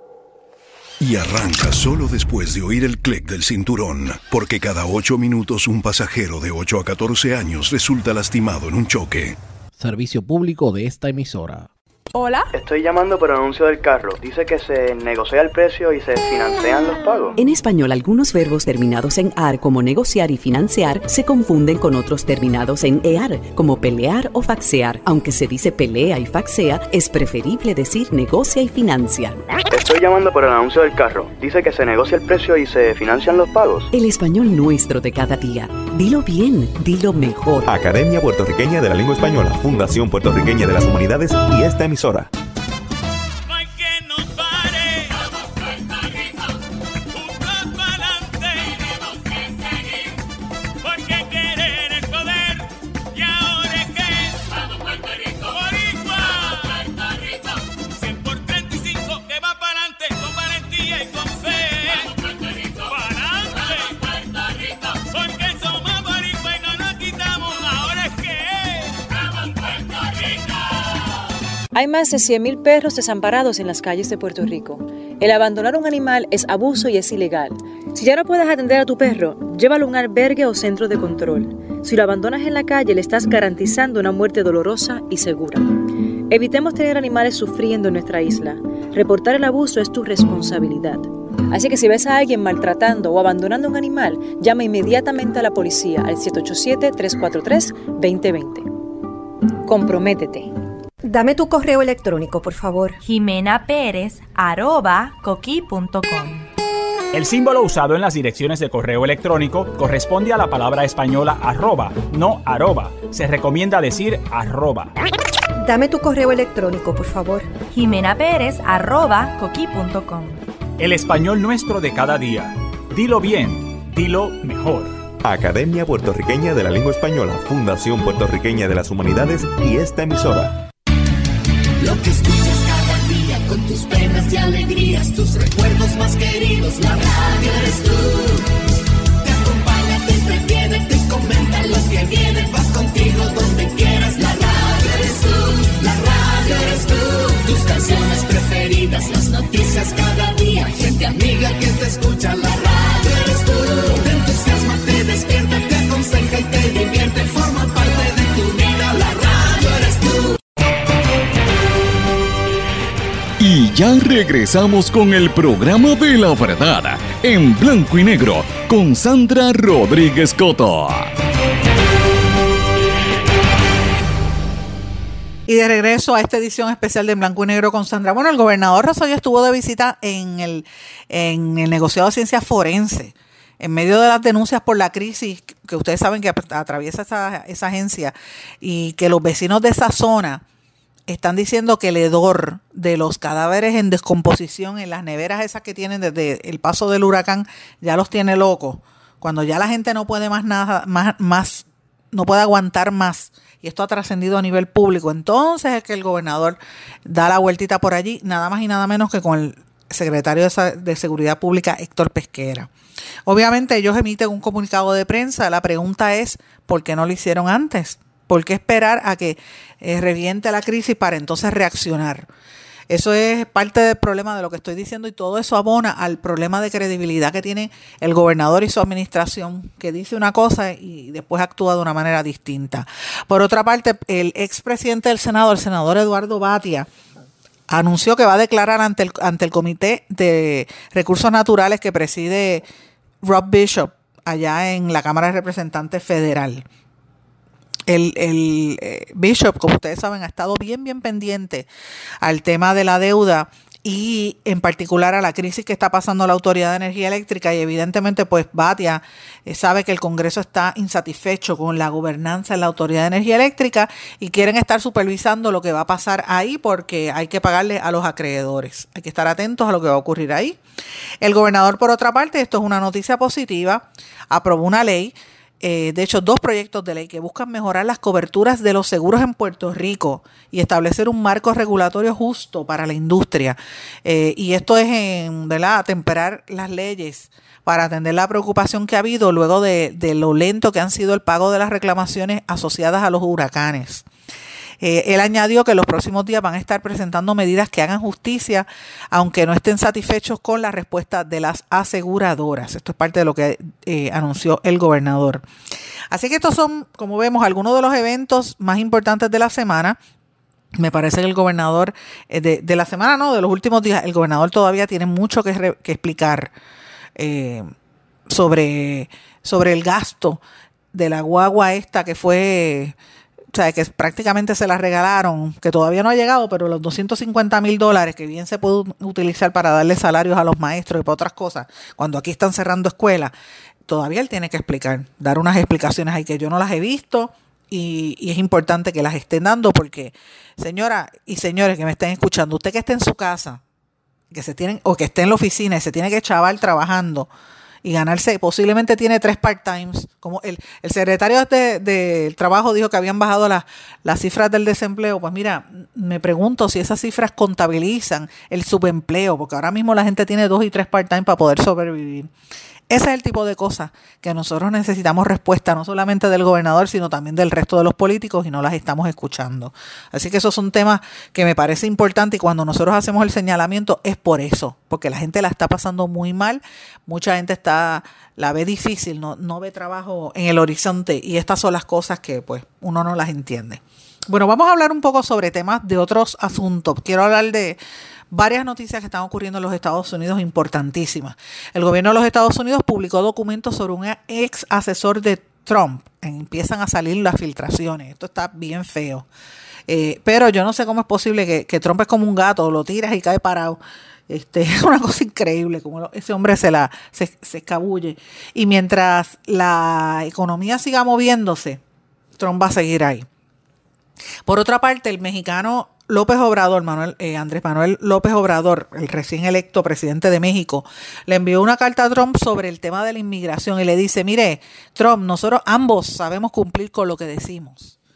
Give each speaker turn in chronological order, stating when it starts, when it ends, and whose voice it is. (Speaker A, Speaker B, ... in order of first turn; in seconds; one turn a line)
Speaker A: 1.0-9.3
Speaker B: 9.7-11.7
Speaker C: 12.5-17.3
Speaker D: 17.4-29.4
Speaker C: 29.7-33.9
Speaker D: 33.9-37.7
Speaker E: 37.7-42.3
Speaker F: 43.5-46.5
Speaker F: 47.1-50.2
Speaker F: 50.8-70.6
Speaker G: 71.7-98.7
Speaker G: 99.7-100.5
Speaker H: 101.0-103.0
Speaker I: 103.0-106.5
Speaker F: 107.1-114.9
Speaker H: 115.6-117.6
Speaker I: 117.7-120.4
Speaker F: 120.8-125.0
Speaker E: 125.2-130.6
Speaker J: 131.8-138.5
Speaker J: 139.2-160.4
Speaker K: 163.4-171.1
Speaker L: 175.5-190.4
Speaker L: 191.1-212.7
Speaker L: 213.2-222.3
Speaker L: 222.9-236.9
Speaker L: 237.7-242.7
Speaker L: 243.2-246.6
Speaker L: 247.9-251.7
Speaker L: 252.2-270.6
Speaker L: 271.2-294.1
Speaker L: 294.8-305.4
Speaker L: 306.1-310.0
Speaker L: 310.8-316.5
Speaker L: 317.2-317.7
Speaker L: 318.3-320.4
Speaker L: 320.9-322.9
Speaker L: 323.5-333.3
Speaker L: 333.9-343.6
Speaker L: 344.3-347.3
Speaker L: 347.8-362.3
Speaker L: 362.9-387.8
Speaker L: 388.3-399.3
Speaker L: 399.9-411.8
Speaker L: 412.4-413.3
Speaker L: 414.4-427.9